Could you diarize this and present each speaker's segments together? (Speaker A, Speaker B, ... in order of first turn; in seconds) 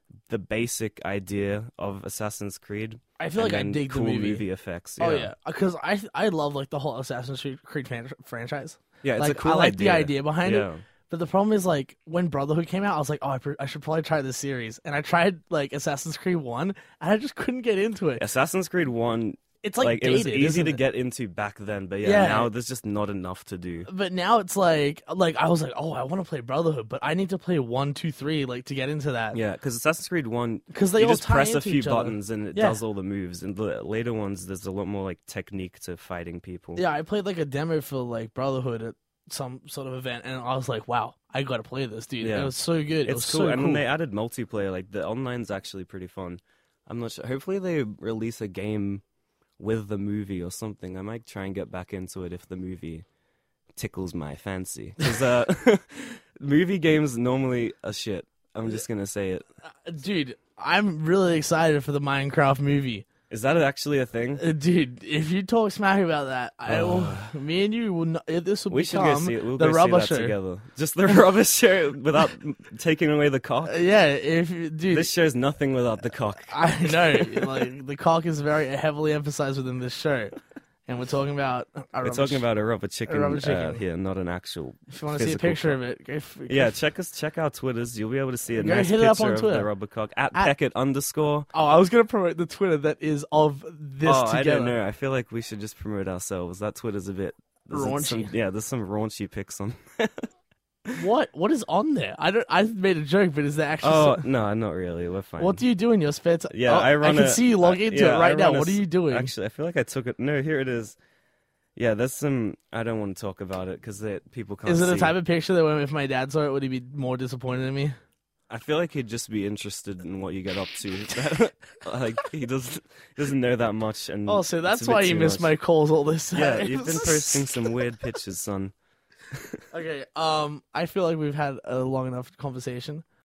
Speaker A: 0.3-5.3, 9.0-10.8, 18.2-23.9, 29.3-36.8, 42.2-49.0, 49.6-53.0, 53.8-59.5, 63.3-64.4, 66.7-67.3, 68.7-73.8, 74.9-77.7, 82.0-85.8, 86.5-91.5, 94.0-100.3, 103.8-105.6, 106.5-111.0, 111.8-115.2, 118.5-125.6, 126.3-128.7, 129.3-129.6
Speaker B: 3.2-4.5, 5.0-18.2, 19.6-20.8, 22.0-22.5, 23.9-29.4, 30.7-32.8, 36.8-43.9, 59.7-63.1, 64.4-70.4, 73.7-75.1, 76.4-82.5, 83.1-83.8, 84.9-86.8, 88.6-89.7, 91.5-94.8, 97.7-98.3, 101.0-104.2, 105.4-109.3, 114.7-117.9, 124.3-127.8, 129.7-133.0